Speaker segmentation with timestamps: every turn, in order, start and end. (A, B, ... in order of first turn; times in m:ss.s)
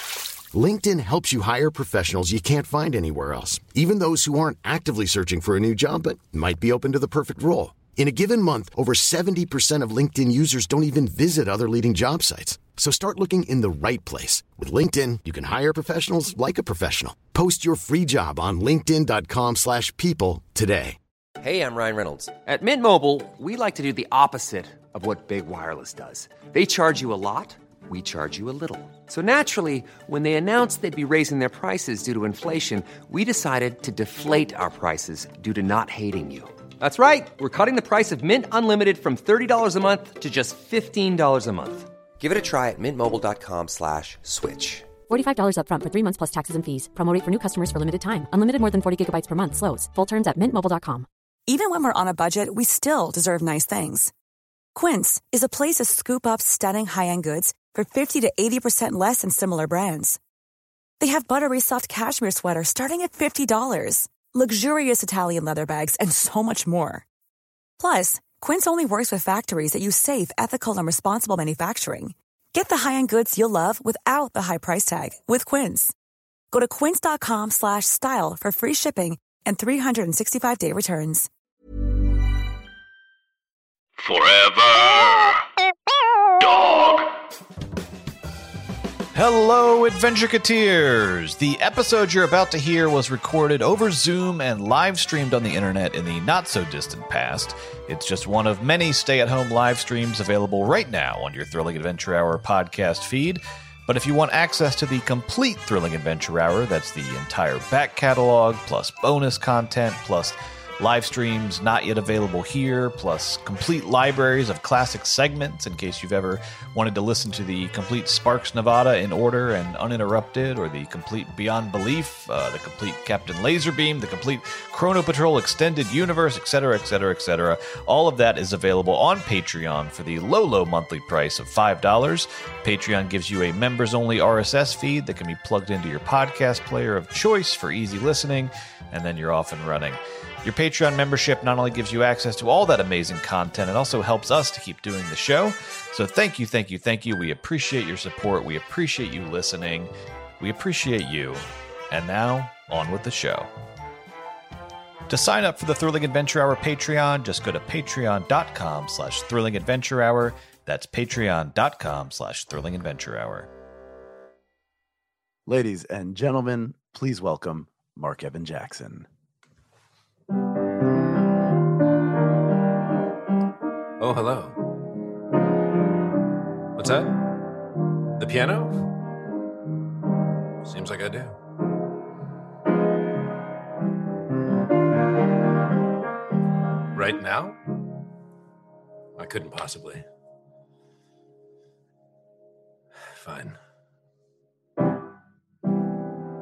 0:00.5-0:21.0 A
0:21.4-0:44.9 B
0:45.1-0:51.1 C
0:51.5-0:54.1 D
0:54.8-1:00.2 D
1:01.0-1:07.0 D
1:07.8-1:15.9 D
1:16.5-1:21.3 D
1:24.0-1:25.4 E
1:26.4-1:27.1 E
1:29.2-2:33.5 F
2:35.1-2:43.5 F
2:45.5-2:49.1 G
2:54.0-2:54.6 H
2:56.8-2:57.3 H
2:58.2-2:58.8 H
3:00.6-3:01.4 H
3:06.9-3:07.6 H
3:09.2-3:10.0 H
3:13.1-3:13.6 H